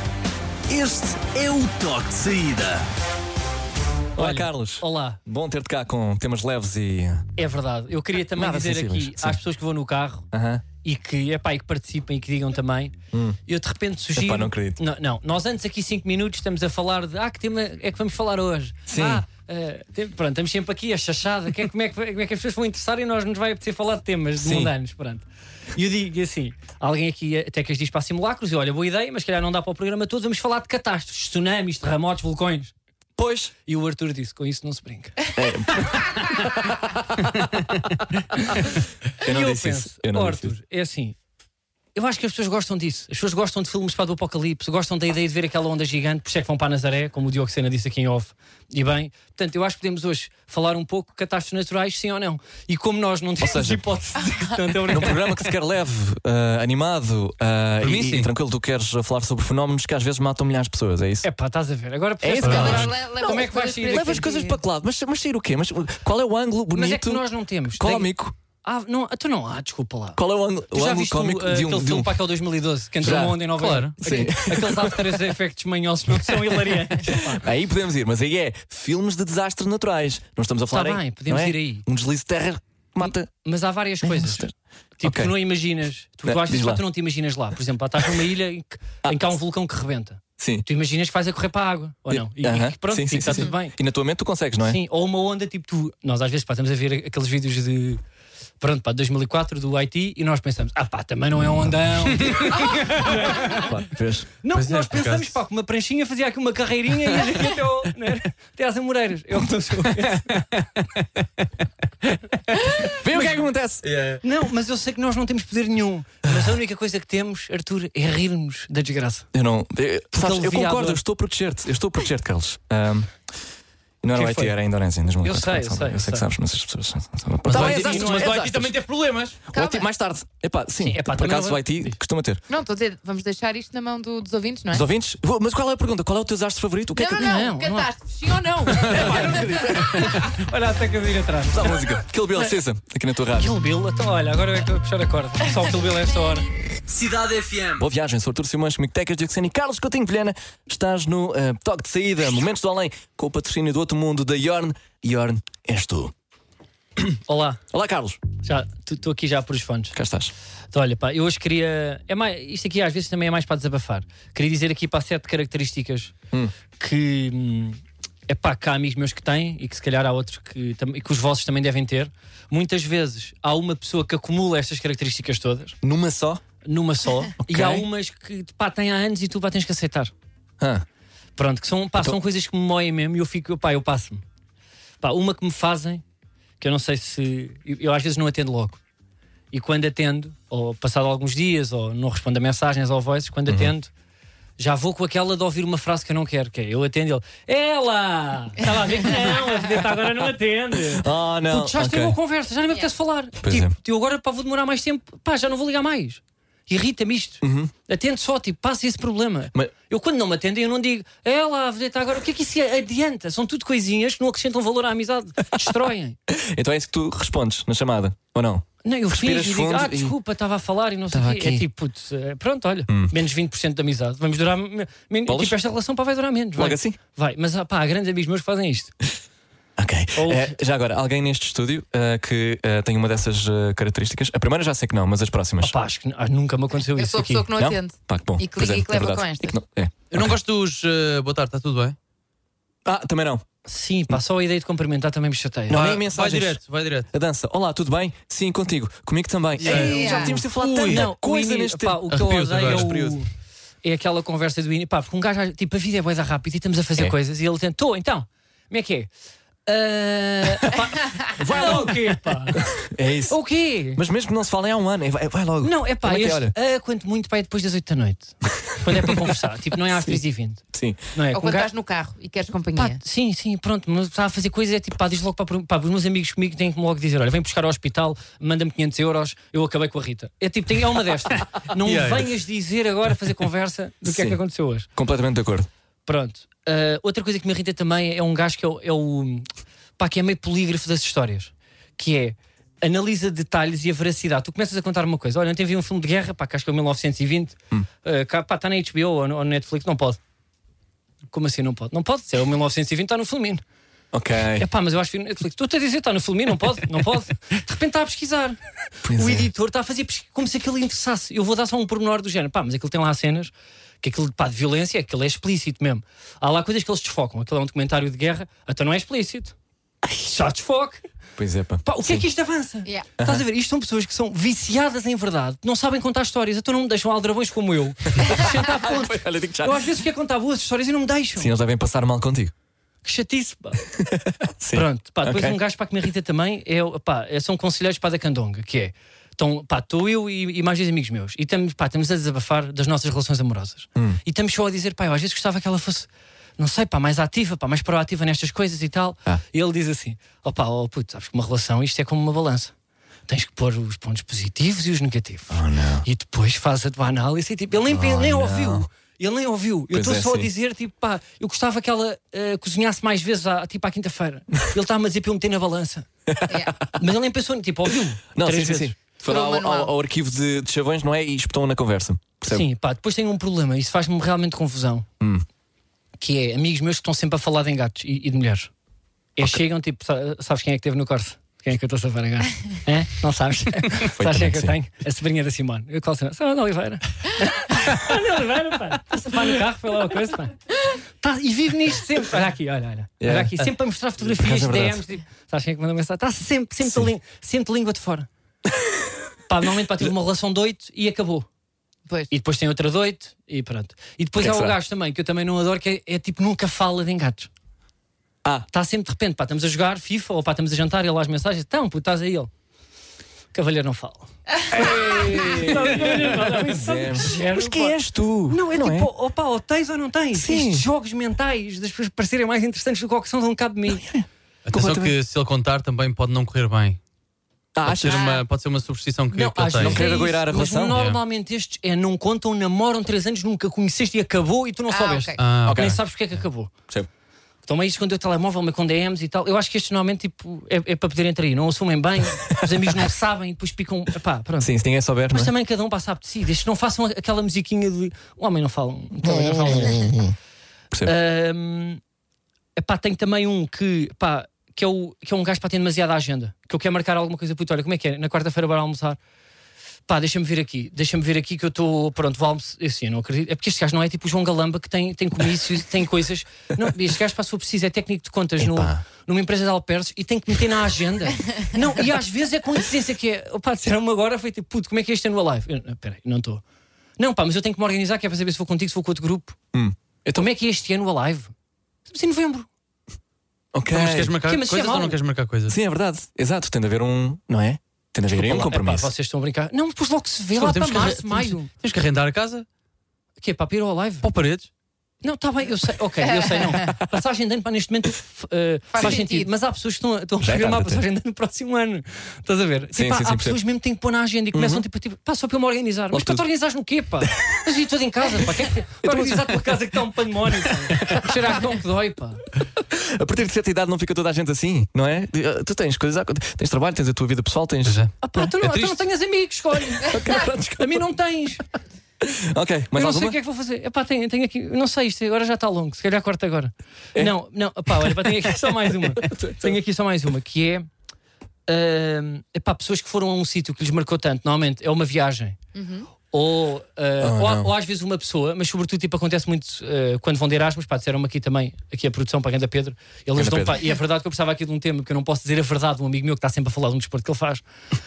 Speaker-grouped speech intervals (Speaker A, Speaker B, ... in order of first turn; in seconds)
Speaker A: 0.7-2.9, 146.9-147.8
Speaker B: 4.1-7.3, 8.3-9.4, 10.3-10.6, 13.1-13.4, 14.1-14.8, 18.9-19.2, 24.4-24.7, 33.2-33.5, 35.4-37.7, 39.2-40.5, 53.4-53.8, 54.9-61.3, 62.2-63.3, 63.8-67.2, 67.8-68.3, 70.2-72.1, 73.0-75.2, 77.0-83.3, 84.0-84.5, 85.0-85.3, 86.2-86.8, 89.0-89.3, 90.4-90.7, 92.1-94.8, 103.5-104.3, 112.8-113.8, 119.3-123.2, 124.0-128.7, 129.5-132.4, 134.7-137.4, 138.8-140.2, 141.5-143.6, 147.8-156.1, 157.7-158.2, 159.9-160.3, 175.8-176.4, 177.4-177.9, 180.6-180.8, 200.9-202.2, 203.4-203.7, 207.4-207.7, 216.3-220.2, 221.1-221.6, 222.9-223.1, 225.2-225.6, 226.6-227.0, 229.8-235.8, 237.6-240.3, 242.8-243.4, 245.7-246.6, 247.1-253.2, 261.5-261.9, 262.5-263.4, 263.9-266.5, 270.7-271.0, 284.0-284.4, 284.9-285.7, 304.1-304.6, 309.0-309.5, 321.4-322.2, 323.2-323.4, 328.2-329.9, 331.4-332.5, 333.9-335.6, 355.5-356.0, 357.9-358.8, 359.9-360.5, 366.3-366.8, 368.3-372.7, 384.0-384.7, 393.2-393.6, 394.3-395.0, 404.4-404.8, 414.7-419.1, 420.3-420.9, 423.9-425.1, 427.7-428.2, 429.8-431.0, 435.6-436.0, 444.6-445.5, 449.9-450.3, 468.6-469.0, 479.7-480.5, 483.7-484.3, 485.7-489.1, 500.4-501.0, 502.9-503.6, 504.5-504.8, 506.1-506.4, 509.0-509.6, 510.7-511.4, 512.8-518.0, 520.0-521.0, 522.2-523.4, 528.0-528.5, 529.2-529.7, 537.2-537.7, 543.3-543.9
Speaker C: 4.2-5.2, 7.3-10.2, 10.8-12.9, 13.4-32.7, 33.6-35.1, 38.3-38.6, 39.2-41.1, 41.9-55.5, 61.2-64.2, 66.7-77.5, 80.7-81.8, 83.0-93.8, 94.6-98.0, 98.6-103.7, 104.4-110.5, 113.1-113.4, 114.2-119.3, 120.1-121.0, 124.1-124.5, 125.2-126.3, 127.5-128.4, 130.8-131.9, 137.1-137.9, 138.8-141.8, 143.3-146.5, 157.3-157.6, 158.4-159.9, 160.7-166.1, 166.8-175.8, 176.6-180.1, 181.3-184.2, 185.0-186.0, 186.6-188.8, 189.5-193.9, 194.6-216.2, 218.8-228.9, 230.1-230.6, 235.6-237.5, 243.7-245.8, 249.6-253.3, 253.8-259.1, 259.6-262.7, 263.3-264.0, 265.6-270.6, 271.1-271.7, 272.7-284.9, 286.1-289.5, 290.0-300.2, 301.3-303.6, 304.6-319.5, 320.1-321.0, 321.8-331.5, 333.0-333.8, 334.7-352.7, 353.3-366.1, 366.9-368.9, 372.5-375.1, 376.2-378.7, 379.4-398.3, 399.5-401.5, 402.3-407.5, 408.7-412.5, 413.5-424.0, 429.3-436.7, 437.6-444.8, 445.3-450.2, 451.0-452.0, 452.8-459.2, 460.1-476.6, 477.2-479.6, 480.3-481.5, 482.1-482.7, 484.4-485.1, 488.2-491.7, 493.4-494.2, 495.2-512.4, 518.2-521.6, 522.9-530.9, 531.7-535.6, 536.3-547.6
Speaker D: 57.8-58.3, 62.4-62.9, 73.6-74.0, 102.3-103.1, 104.5-105.3, 113.8-114.2, 127.4-129.4, 240.1-241.9, 245.7-247.1, 249.6-251.1, 252.1-252.9, 281.8-282.3, 424.6-427.0, 427.8-430.1, 430.9-431.2, 435.4-435.8, 483.9-485.8, 490.5-492.6, 494.2-494.7, 517.9-519.0
Speaker E: 62.4-64.6, 129.5-129.8, 132.5-134.8, 136.9-140.0, 236.8-239.6, 249.6-250.3, 271.3-273.0, 366.5-366.8, 369.2-369.9, 414.7-415.0, 428.0-428.4, 434.9-435.5, 496.2-496.9, 498.9-499.5, 535.7-536.1